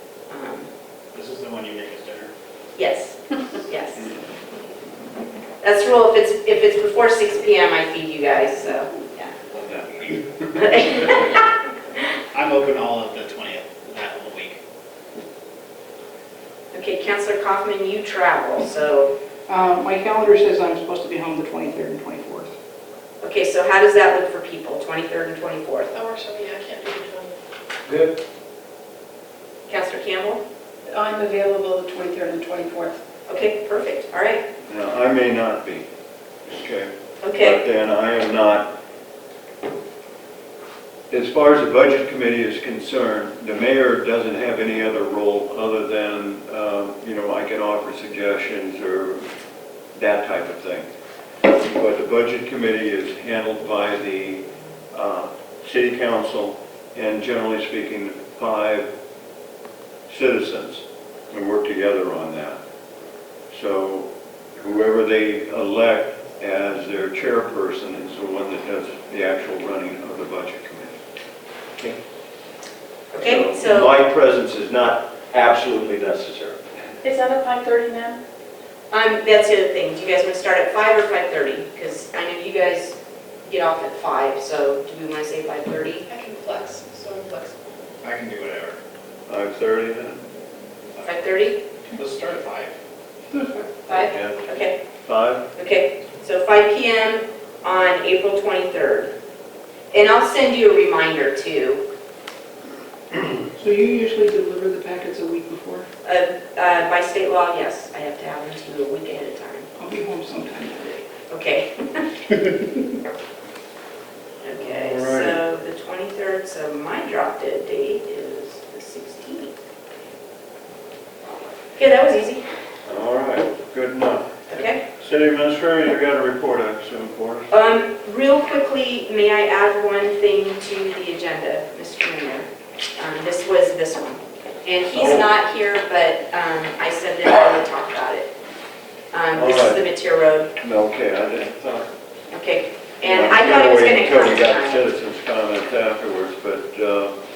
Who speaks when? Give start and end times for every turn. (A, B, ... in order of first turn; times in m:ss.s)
0:00.3-0:00.7 A
0:01.1-0:02.3 B
0:02.8-0:04.1 A
0:05.6-0:09.3 A
0:09.5-0:10.2 B
0:10.5-0:11.5 A
0:12.3-0:14.6 B
0:16.7-0:19.1 A
0:19.5-0:22.5 C
0:23.2-0:25.9 A
0:25.9-0:27.4 D
0:29.7-0:30.4 A
0:30.9-0:33.0 C
0:33.3-0:34.4 A
0:34.6-0:35.8 E
0:36.4-0:38.7 E
0:37.2-0:37.6 A
0:41.1-0:49.2 E
0:50.0-0:50.9 E
0:51.4-0:58.9 E
1:00.1-1:02.6 E
1:03.5-1:11.0 E
1:13.1-1:13.9 A
1:13.2-1:15.4 E
1:16.0-1:16.4 E
1:17.0-1:18.2 D
1:18.9-1:26.1 A
1:26.1-1:27.6 D
1:28.0-1:28.8 B
1:29.3-1:30.2 E
1:31.0-1:31.2 B
1:31.0-1:31.6 A
1:31.9-1:32.7 B
1:33.3-1:33.8 C
1:33.9-1:34.8 A
1:34.1-1:34.4 E
1:35.0-1:35.4 E
1:35.5-1:39.1 A
1:39.9-1:41.8 A
1:43.5-1:45.8 C
1:46.0-1:49.7 A
1:49.8-1:51.0 C
1:51.3-1:52.1 A
1:54.4-1:59.6 A
1:54.6-1:55.4 E
2:01.8-2:02.4 A
2:02.8-2:07.5 E
2:04.5-2:04.8 A
2:07.5-2:18.3 A
2:14.9-2:15.3 E
2:19.1-2:20.5 A
2:19.3-2:19.8 E
2:20.6-2:21.9 E
2:22.3-2:24.8 A
2:23.0-2:27.1 E